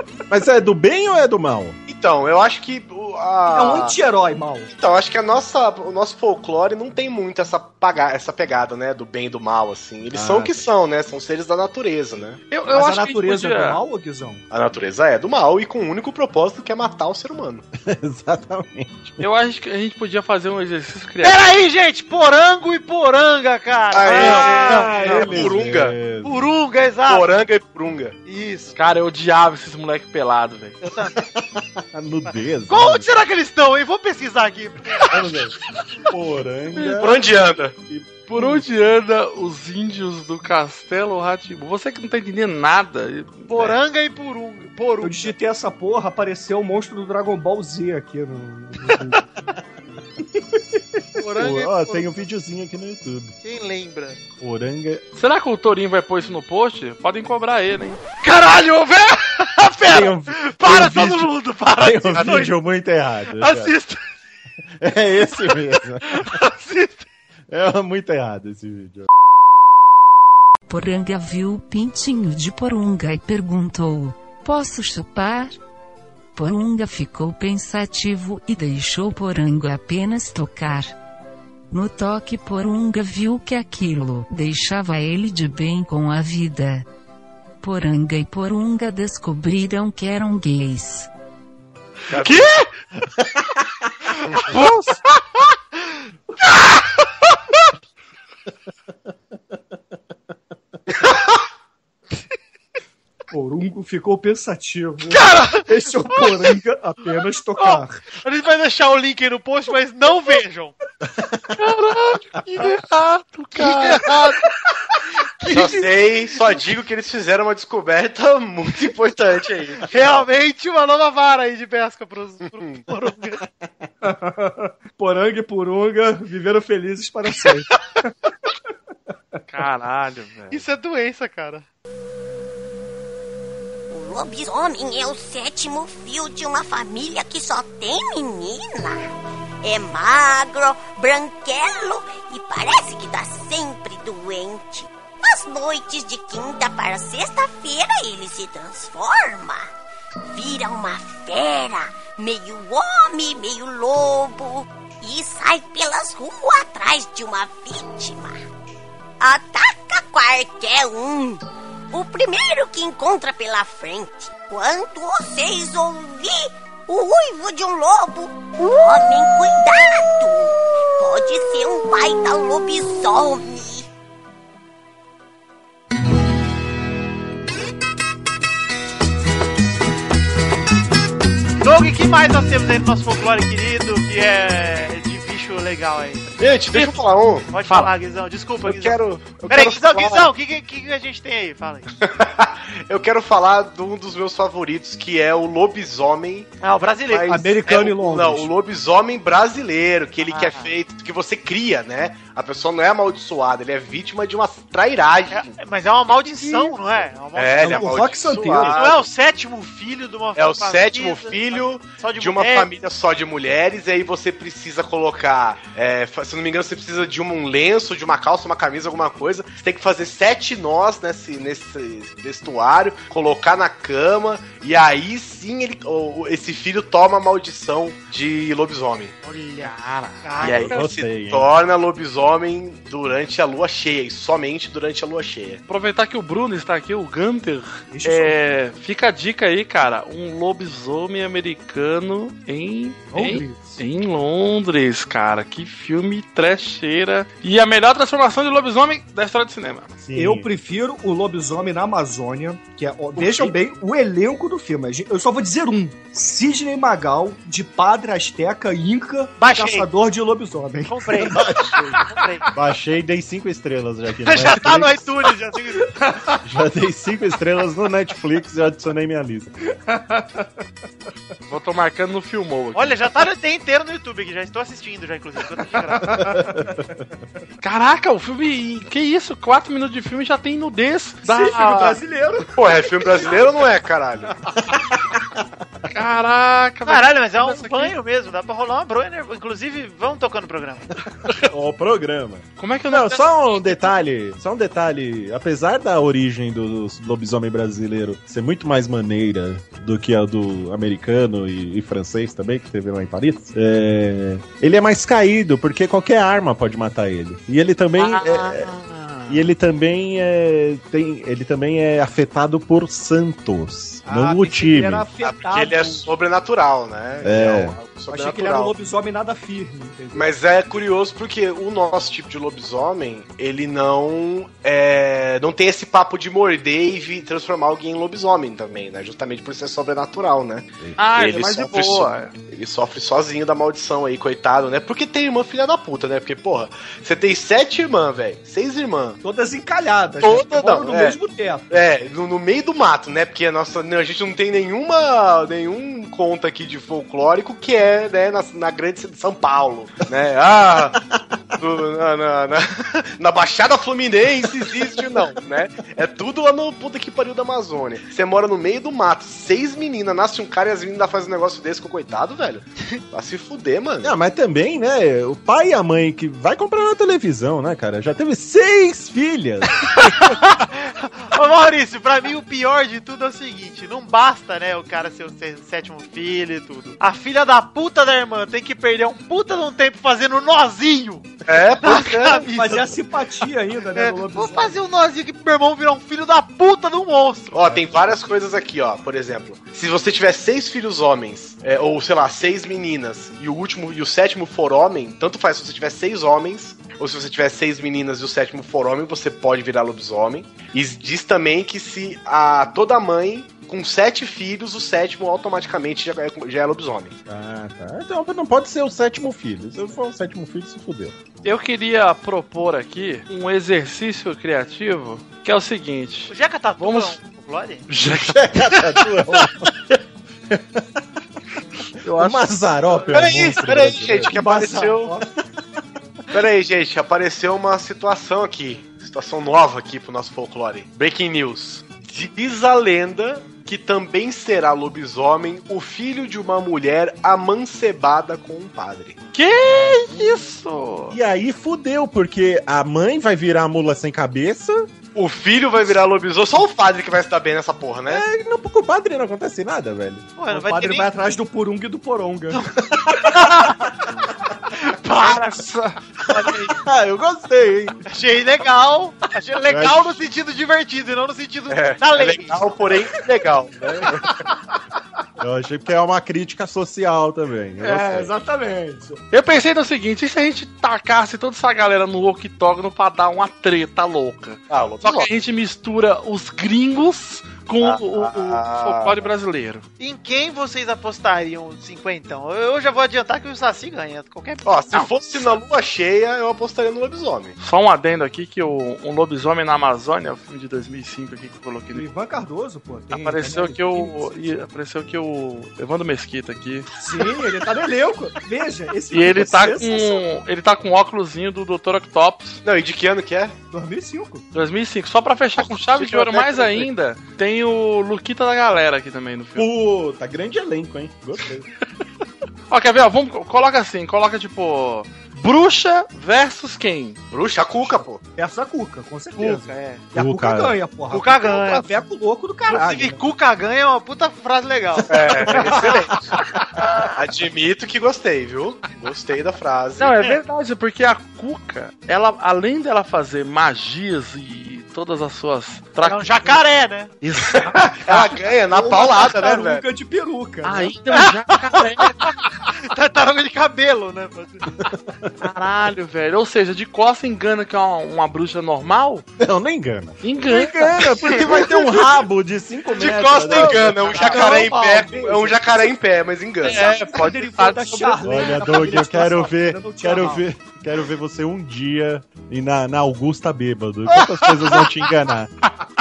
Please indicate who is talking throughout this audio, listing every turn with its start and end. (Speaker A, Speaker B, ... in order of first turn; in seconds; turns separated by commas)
Speaker A: 0.3-1.8, Speaker B: 1.9-4.0, Speaker C: 3.5-4.7, Speaker B: 4.7-12.4, Speaker A: 10.1-10.7, Speaker D: 12.5-13.8, Speaker C: 12.7-14.4, Speaker B: 14.5-17.6, Speaker A: 17.8-19.2, Speaker D: 19.2-21.5, Speaker E: 21.2-25.5, Speaker B: 23.9-25.9, Speaker A: 24.1-26.5, Speaker E: 26.2-27.3, Speaker B: 27.1-28.2, Speaker E: 28.2-28.8, Speaker D: 28.7-30.8, Speaker E: 30.8-31.2, Speaker A: 31.2-33.1, Speaker E: 32.3-35.1, Speaker A: 35.1-38.6, Speaker B: 36.8-37.8, Speaker D: 38.3-43.7, Speaker E: 43.5-45.3, Speaker C: 45.0-49.2, Speaker E: 51.1-52.1, Speaker A: 51.3-53.3, Speaker E: 53.4-54.2, Speaker A: 54.4-55.0, Speaker D: 55.1-58.0, Speaker E: 58.2-62.5, Speaker A: 59.8-63.8, Speaker E: 63.3-64.0, Speaker A: 64.8-66.4, Speaker E: 66.1-67.0, Speaker A: 67.5-69.1, Speaker F: 70.7-75.5, Speaker F: 76.3-80.9, Speaker F: 81.7-86.8, Speaker F: 87.6-91.1, Speaker B: 92.1-92.5, Speaker D: 92.1-92.7, Speaker D: 94.3-95.5, Speaker D: 96.6-97.5, Speaker C: 103.3-108.0, Speaker E: 105.1-106.5, Speaker E: 107.6-110.7, Speaker A: 111.2-111.4, Speaker D: 111.6-114.4, Speaker E: 113.6-114.1, Speaker E: 115.5-115.8, Speaker B: 115.5-120.3, Speaker E: 119.8-123.4, Speaker C: 124.0-128.1, Speaker D: 129.5-130.6, Speaker E: 130.5-131.6, Speaker G: 133.9-139.0, Speaker G: 139.6-149.7, Speaker G: 150.3-158.3, Speaker G: 159.2-173.8, Speaker E: 181.6-191.9, Speaker B: 186.4-187.9, Speaker B: 188.6-190.3, Speaker B: 192.0-196.5, Speaker E: 196.6-197.5, Speaker B: 197.1-205.5, Speaker C: 197.3-198.5, Speaker E: 200.2-200.7, Speaker E: 205.3-207.9, Speaker B: 207.3-209.1, Speaker C: 207.6-208.8, Speaker E: 208.6-212.7, Speaker B: 210.3-229.1, Speaker E: 229.2-230.8, Speaker D: 229.6-230.9, Speaker B: 230.4-235.6, Speaker A: 230.5-231.5, Speaker D: 235.7-250.0, Speaker C: 237.9-238.3, Speaker C: 243.1-243.8, Speaker A: 250.0-250.5, Speaker C: 250.1-261.6, Speaker B: 253.2-253.5, Speaker E: 259.4-259.9, Speaker E: 260.9-262.5, Speaker A: 261.3-261.8, Speaker A: 262.5-265.1, Speaker E: 264.2-266.0, Speaker C: 265.9-266.4, Speaker A: 266.4-269.5, Speaker C: 269.9-270.4, Speaker D: 271.5-273.0, Speaker E: 272.7-276.4, Speaker C: 276.0-276.8, Speaker A: 276.2-276.8, Speaker D: 277.6-282.0, Speaker C: 281.2-283.4, Speaker B: 282.6-284.4, Speaker D: 285.9-287.9, Speaker E: 286.9-290.9, Speaker A: 291.4-308.7, Speaker D: 292.6-293.9, Speaker A: 309.3-315.1, Speaker C: 314.0-316.1, Speaker B: 315.2-318.7, Speaker A: 317.2-317.8, Speaker C: 318.1-320.3, Speaker B: 320.1-339.2, Speaker D: 331.0-332.3, Speaker C: 339.2-341.8, Speaker B: 340.2-341.2, Speaker B: 341.7-351.0, Speaker B: 351.6-364.1, Speaker A: 364.0-370.3, Speaker E: 369.9-381.3, Speaker B: 381.4-382.5, Speaker E: 381.8-383.0, Speaker C: 382.5-384.8, Speaker E: 383.9-387.6, Speaker B: 387.5-407.1, Speaker A: 407.3-411.2, Speaker D: 411.4-417.2, Speaker E: 416.3-417.9, Speaker D: 417.9-419.4, Speaker A: 418.0-421.0, Speaker A: 422.0-424.3, Speaker D: 422.1-422.4, Speaker B: 423.1-425.1, Speaker C: 424.3-425.3, Speaker B: 426.3-439.2, Speaker D: 439.3-441.1, Speaker A: 441.1-444.9, Speaker B: 445.1-448.2, Speaker A: 448.1-450.3, Speaker E: 450.4-451.1, Speaker C: 450.5-452.7, Speaker E: 452.5-453.9, Speaker E: 454.7-455.6, Speaker D: 455.2-455.9, Speaker A: 456.3-458.0, Speaker E: 458.1-462.6, Speaker A: 459.7-460.2, Speaker B: 461.7-464.2, Speaker C: 464.2-464.5, Speaker A: 465.4-468.3, Speaker C: 467.8-469.2, Speaker D: 469.3-479.8, Speaker B: 474.7-475.3, Speaker B: 477.8-479.3, Speaker E: 480.0-484.7, Speaker B: 484.6-487.6, Speaker D: 487.6-492.1, Speaker C: 491.9-494.3, Speaker D: 493.1-496.9, Speaker C: 497.0-500.2, Speaker D: 499.1-502.6, Speaker B: 502.6-503.6, Speaker C: 503.7-504.4, Speaker D: 504.5-509.7, Speaker B: 505.6-506.9, Speaker A: 509.6-511.6, Speaker D: 512.7-517.2, Speaker B: 517.3-518.2, Speaker C: 518.4-523.2, Speaker E: 519.4-520.0, Speaker A: 520.1-520.8, Speaker E: 521.1-521.9, Speaker E: 522.7-525.9, Speaker B: 525.1-526.4, Speaker C: 525.5-526.0, Speaker B: 527.1-530.1, Speaker D: 530.0-536.6, Speaker E: 536.0-537.1, Speaker D: 537.2-538.4, Speaker B: 537.5-539.8, Speaker C: 538.7-540.9, Speaker D: 540.6-542.3, Speaker E: 541.1-544.8, Speaker A: 544.8-545.3, Speaker D: 545.4-549.2, Speaker A: 549.4-554.0, Speaker D: 550.2-551.4, Speaker B: 553.0-556.9, Speaker E: 553.0-555.1, Speaker C: 554.2-555.9, Speaker D: 554.2-554.7, Speaker D: 556.6-558.7, Speaker C: 556.7-560.4, Speaker A: 558.2-565.5, Speaker E: 564.4-564.9